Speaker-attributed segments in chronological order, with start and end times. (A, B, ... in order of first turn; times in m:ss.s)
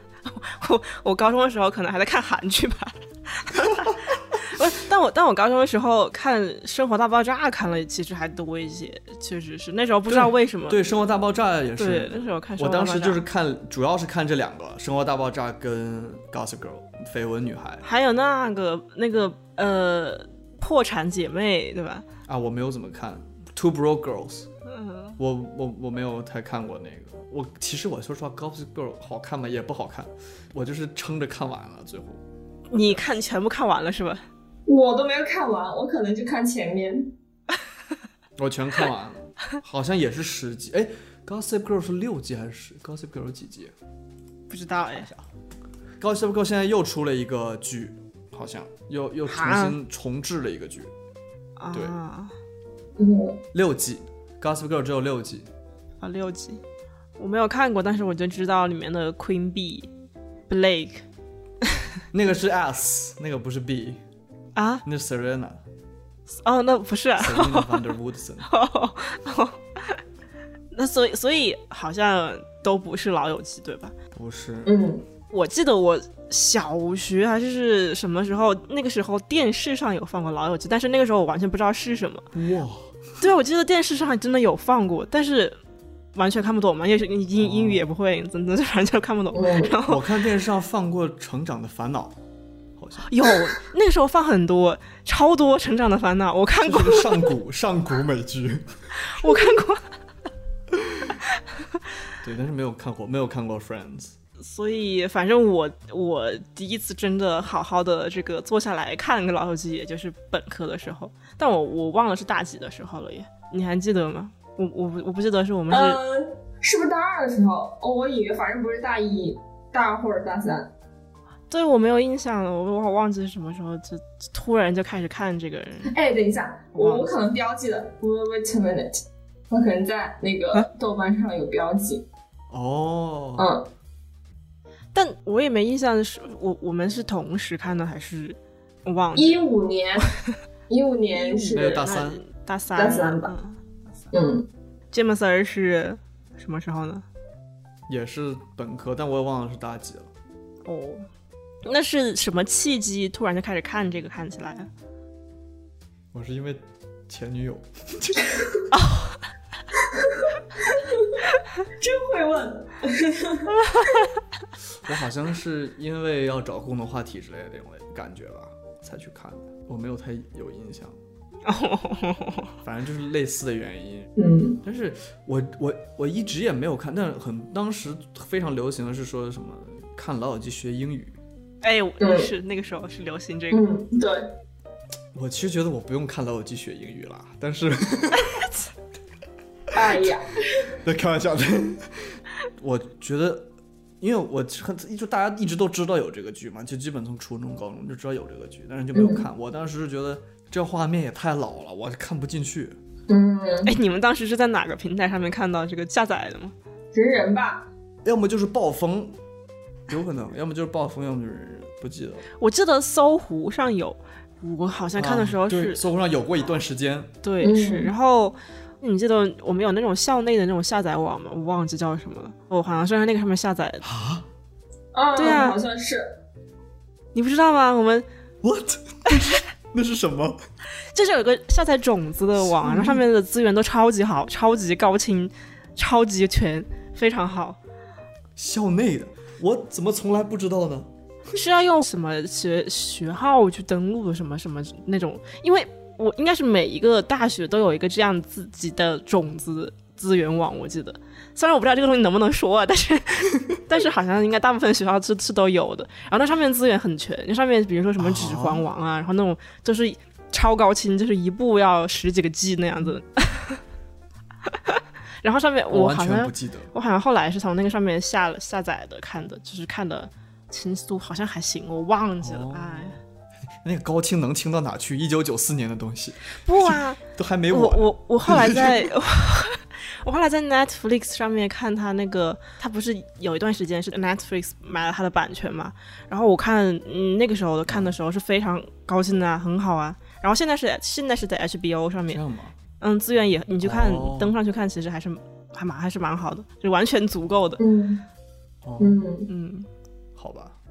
0:00.2-0:10.8 A
0:10.1-0:17.8 B
0:11.8-0:13.2 A
0:17.8-0:22.0 A
0:22.3-0:24.5 B
0:24.6-0:25.2 A
0:25.2-0:32.2 B
0:32.7-0:34.2 A
0:34.7-0:37.1 C
0:38.4-0:43.7 B
0:44.5-0:45.1 A
0:44.9-0:45.2 B
0:46.0-0:50.9 B
0:49.3-0:49.8 A
0:51.6-0:52.3 A
0:51.7-0:52.0 B
0:53.0-0:53.4 C
0:53.5-0:55.5 B
0:56.0-0:56.6 A
0:57.2-0:59.9 A
1:00.5-1:01.0 A
1:02.1-1:04.0 B
1:04.5-1:04.8 A
1:04.8-1:05.6 B
1:06.3-1:07.9 A
1:07.2-1:08.5 B
1:08.4-1:10.0 A
1:10.7-1:13.9 A
1:14.1-1:14.7 B
1:14.6-1:15.0 C
1:15.3-1:22.3 A
1:22.3-1:22.9 B
1:23.2-1:25.6 A
1:26.1-1:30.0 A
1:27.4-1:27.8 B
1:29.3-1:29.7 C
1:29.8-1:32.2 B
1:32.8-1:33.1 B
1:33.0-1:37.2 A
1:36.6-1:38.7 B
1:39.0-1:39.9 A
1:40.7-1:41.1 B
1:42.2-1:44.2 B
1:44.4-1:56.0 A
1:55.7-2:00.7 C
2:01.5-2:05.9 A
2:05.9-2:12.0 C
2:06.7-2:07.1 A
2:12.5-2:13.5 B
2:13.4-2:13.7 C
2:14.9-2:19.4 A
2:19.1-2:20.1 C
2:20.7-2:21.9 C
2:21.1-2:23.6 A
2:21.5-2:22.2 B
2:22.7-2:23.3 C
2:24.1-2:24.5 C
2:24.9-2:27.0 A
2:27.9-2:30.1 B
2:30.6-2:31.1 A
2:31.6-2:34.7 A
2:36.1-2:38.3 B
2:38.7-2:39.2 A
2:40.7-2:41.0 C
2:41.8-2:43.8 C
2:44.8-2:51.0 B
2:51.4-2:52.5 A
2:52.6-2:54.1 B
2:54.2-2:54.6 C
2:54.6-3:01.2 B
3:01.6-3:03.6 A
3:02.0-3:02.3 C
3:03.5-3:04.3 C
3:05.1-3:08.4 B
3:09.7-3:10.7 C
3:09.8-3:10.1 B
3:10.8-3:22.8 B
3:18.9-3:19.2 C
3:23.1-3:23.7 C
3:23.6-3:26.5 A
3:26.9-3:27.7 C
3:28.0-3:29.2 B
3:29.9-3:32.2 B
3:32.4-3:35.8 A
3:35.0-3:37.1 B
3:37.2-3:43.8 A
3:37.4-3:37.9 C
3:43.8-3:44.2 B
3:44.9-3:46.2 C
3:45.2-3:45.6 A
3:47.1-3:48.0 A
3:48.4-3:50.4 B
3:50.9-3:57.6 A
3:52.6-3:52.9 B
3:58.4-4:00.9 B
4:01.3-4:23.6 A
4:18.0-4:18.6 B
4:24.5-4:33.0 A
4:25.7-4:26.7 B
4:32.2-4:33.0 B
4:33.6-4:38.8 B
4:36.4-4:52.2 A
4:47.7-4:47.9 B
4:52.1-4:52.5 B
4:52.8-4:57.6 A
4:53.6-4:54.3 B
4:57.6-4:58.0 C
4:58.6-4:59.0 B
4:58.8-4:59.3 C
4:59.3-4:59.7 A
5:00.2-5:00.6 B